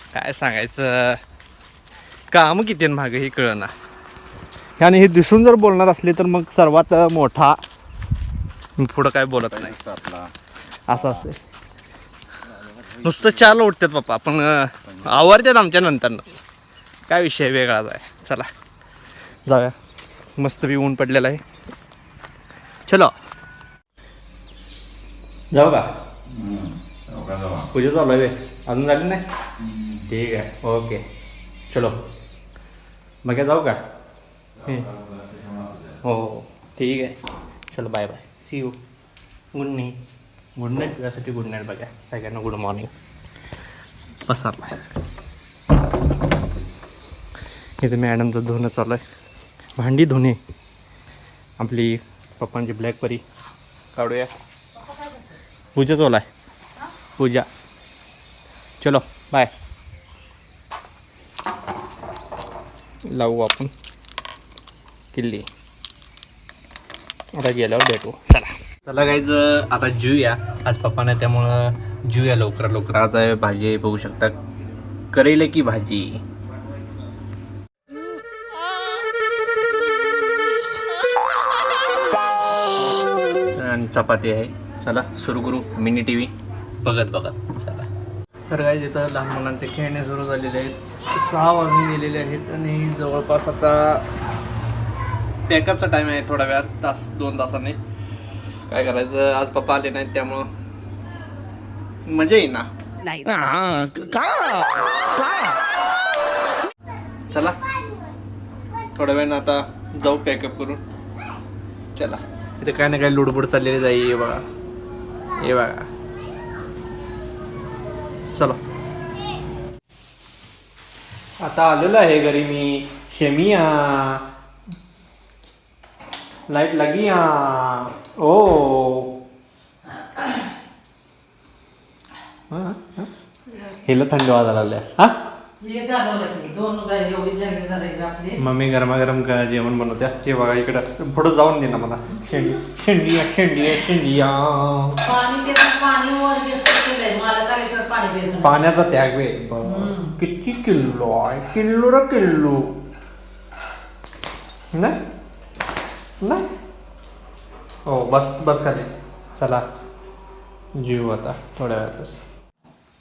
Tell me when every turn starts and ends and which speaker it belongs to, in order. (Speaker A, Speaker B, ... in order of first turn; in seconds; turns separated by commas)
Speaker A: 0.1-1.2, Speaker A: 2.3-3.7, Speaker A: 4.8-7.6, Speaker A: 8.8-9.8, Speaker B: 9.5-10.3, Speaker A: 10.9-11.4, Speaker B: 12.5-13.5, Speaker A: 13.0-16.4, Speaker A: 17.1-18.5, Speaker A: 19.4-19.8, Speaker A: 20.4-21.4, Speaker A: 22.9-23.1, Speaker A: 25.5-25.9, Speaker B: 26.3-27.7, Speaker A: 27.7-29.2, Speaker A: 29.9-31.0, Speaker A: 31.7-32.0, Speaker A: 33.2-33.8, Speaker A: 34.6-34.9, Speaker B: 34.9-35.8, Speaker A: 36.0-37.2, Speaker A: 37.7-38.8, Speaker A: 39.5-40.0, Speaker A: 40.5-42.9, Speaker A: 44.2-44.8, Speaker A: 47.8-49.0, Speaker A: 49.8-50.4, Speaker A: 51.6-53.2, Speaker A: 53.9-54.3, Speaker A: 55.7-56.3, Speaker A: 57.2-57.5, Speaker A: 58.8-59.5, Speaker A: 63.1-63.7, Speaker A: 65.1-65.5, Speaker A: 67.3-74.3, Speaker A: 75.1-76.2, Speaker A: 83.5-87.9, Speaker A: 88.5-94.1, Speaker A: 95.5-97.8, Speaker A: 98.7-100.5, Speaker A: 102.0-105.2, Speaker A: 107.3-107.6, Speaker A: 108.9-110.8, Speaker A: 111.9-114.4, Speaker A: 115.4-115.9, Speaker A: 118.3-118.6, Speaker A: 121.4-124.2, Speaker A: 126.5-129.1, Speaker A: 132.5-135.1, Speaker C: 135.6-138.4, Speaker A: 138.3-145.0, Speaker C: 145.0-148.5, Speaker A: 148.4-152.7, Speaker C: 149.6-150.2, Speaker A: 157.8-159.6, Speaker A: 160.8-162.2